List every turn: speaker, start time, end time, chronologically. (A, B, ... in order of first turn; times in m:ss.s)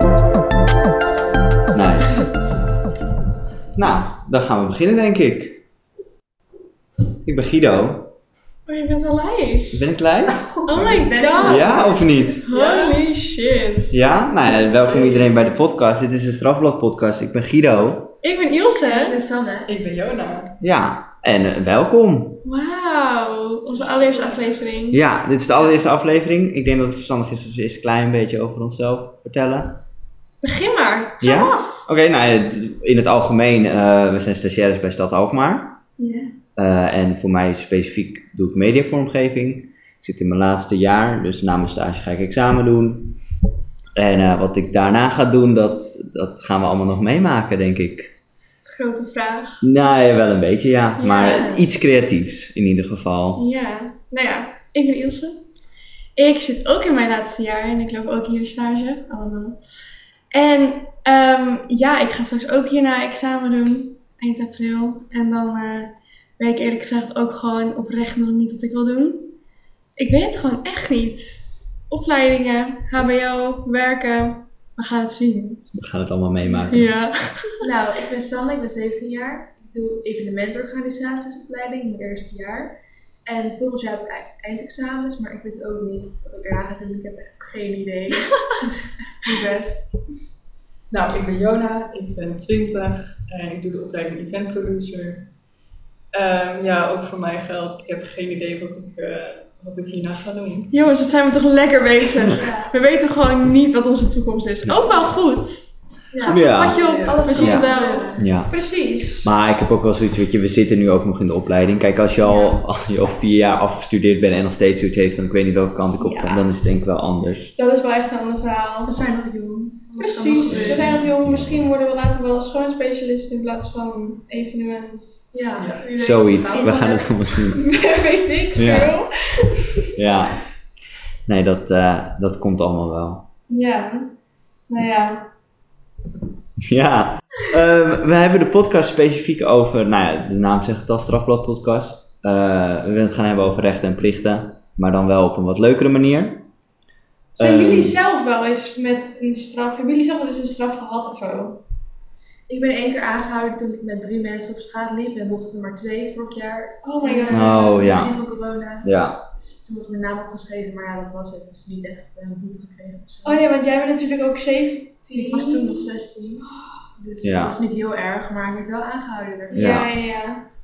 0:01.7-0:02.2 A
0:03.8-0:05.6 A
0:07.2-0:08.1 A
0:08.7-0:09.9 B
0:09.7-0:10.4 A
0:10.7-0:14.0 B
0:10.7-0:12.2 C
0:11.4-0:12.4 A
0:12.5-0:13.0 D
0:13.9-0:18.1 A
0:18.2-0:19.2 B
0:18.8-0:19.7 C
0:19.7-0:20.6 D
0:20.6-0:22.4 A
0:22.4-0:25.0 B
0:23.7-0:24.4 D
0:24.9-0:29.8 A
0:30.4-0:31.7 B
0:31.2-0:35.8 A
0:36.0-0:36.3 B
0:36.6-0:43.2 A
0:44.0-0:48.1 A
0:48.7-0:49.6 B
0:49.6-0:53.4 A
0:51.0-0:51.7 B
0:53.4-0:55.4 B
0:56.2-0:59.6 B
1:00.3-1:09.3 B
1:10.0-1:15.7 B
1:15.7-1:17.1 A
1:16.6-1:17.6 B
1:17.6-1:30.0 C
1:30.9-1:35.3 D
1:36.1-1:40.7 D
1:40.7-1:49.3 B
1:42.4-1:42.7 C
1:46.1-1:48.3 C
1:46.2-1:46.8 A
1:46.8-1:47.4 D
1:47.4-1:48.6 A
1:49.2-1:57.5 A
1:52.2-1:52.6 B
1:56.0-1:56.5 B
1:57.6-1:59.0 B
1:58.8-2:01.0 C
2:00.0-2:05.3 B
2:00.5-2:01.0 D
2:00.6-2:01.6 A
2:05.3-2:07.1 C
2:05.6-2:05.9 D
2:06.0-2:07.6 A
2:06.5-2:09.9 B
2:08.6-2:09.0 A
2:09.9-2:10.4 A
2:11.3-2:13.3 A
2:13.5-2:14.1 B
2:14.7-2:15.3 B
2:16.6-2:26.5 A
2:27.4-2:28.0 A
2:27.4-2:31.6 B
2:32.5-2:43.5 C
2:36.8-2:37.8 B
2:37.3-2:38.2 A
2:38.8-2:39.2 A
2:43.2-2:45.9 B
2:45.1-2:49.8 C
2:47.2-2:47.6 A
2:49.5-2:50.5 B
2:49.5-2:49.9 A